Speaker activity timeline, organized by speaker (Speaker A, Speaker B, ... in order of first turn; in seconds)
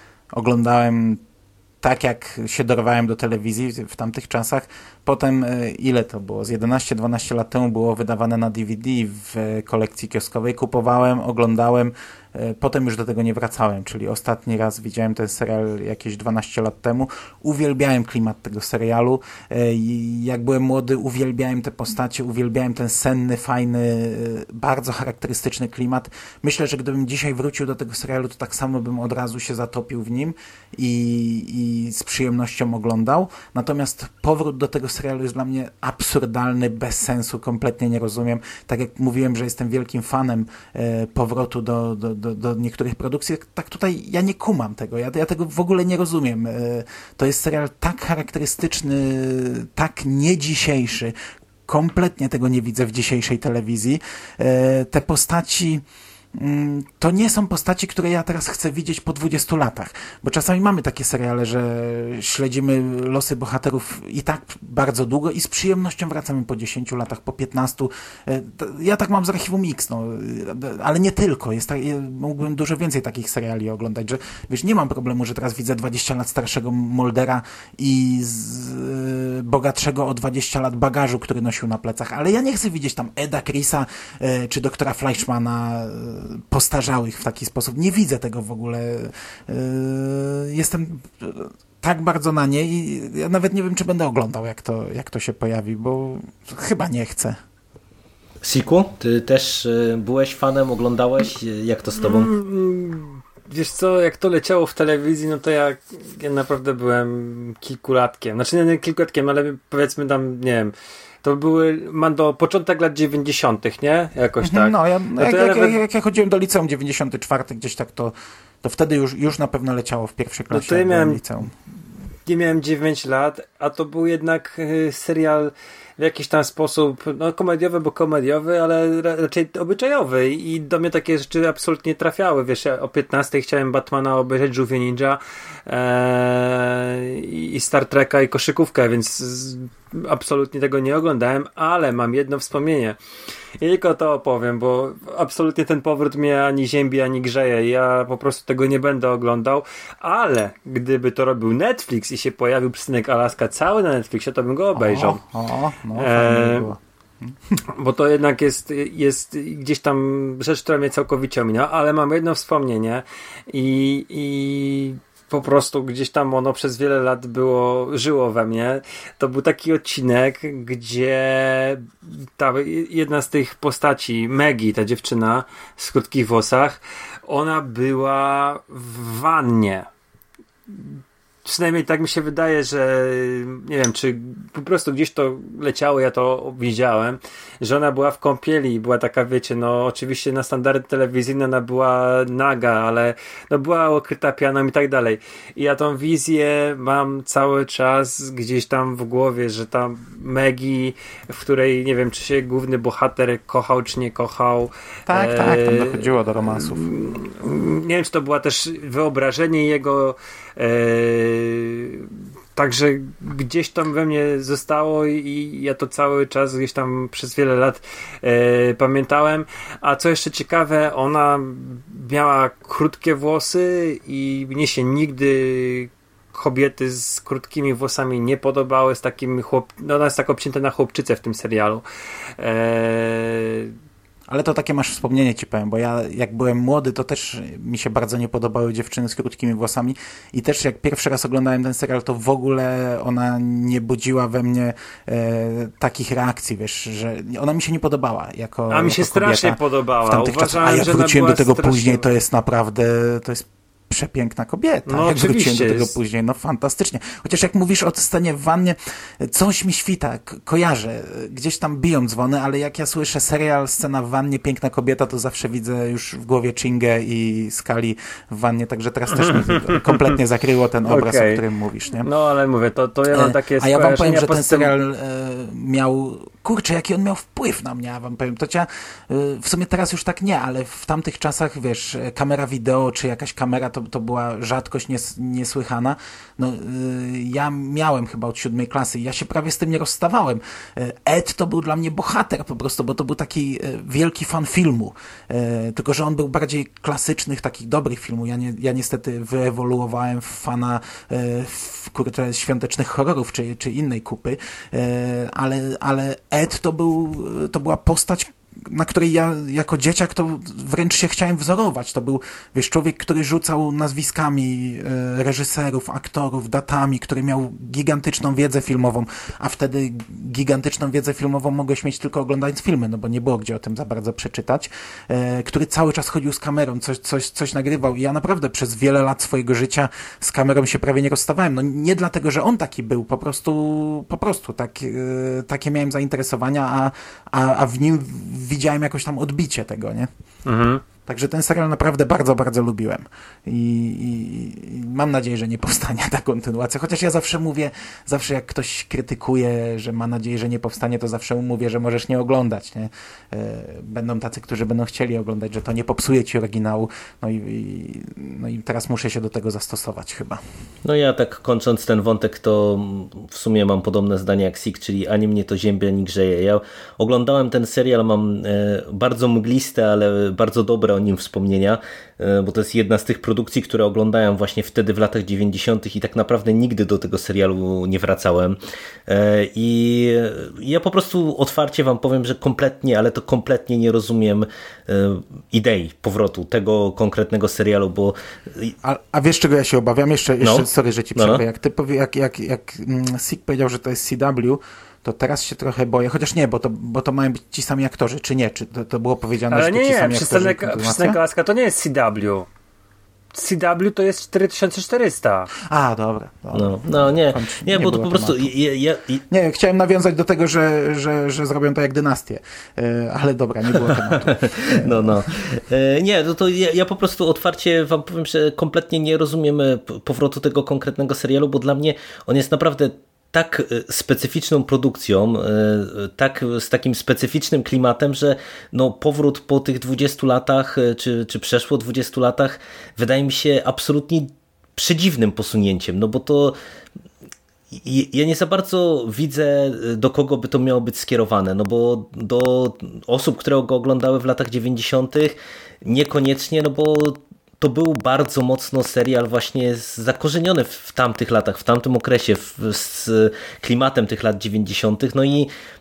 Speaker A: 0.3-1.2, 1.8-51.1, 51.7-55.8, 56.3-97.4, 114.4-121.5, 154.8-157.6, 205.1-206.8, 234.3-272.1, 273.1-340.1, 341.1-360.4, 388.8-401.2, 405.6-408.5, 409.3-415.2
Speaker B: 98.4-102.3, 360.8-388.7, 390.4-391.4, 406.5-409.2, 413.9-436.6, 437.7-455.5
Speaker C: 102.0-115.8, 120.5-121.2, 122.2-143.0, 143.6-155.2, 155.9-156.7, 157.7-179.9, 180.7-231.8, 232.4-233.7, 248.7-252.1, 254.9-255.9, 269.2-270.1, 270.8-271.4, 272.0-274.7, 340.4-340.8, 399.5-402.5, 403.3-405.5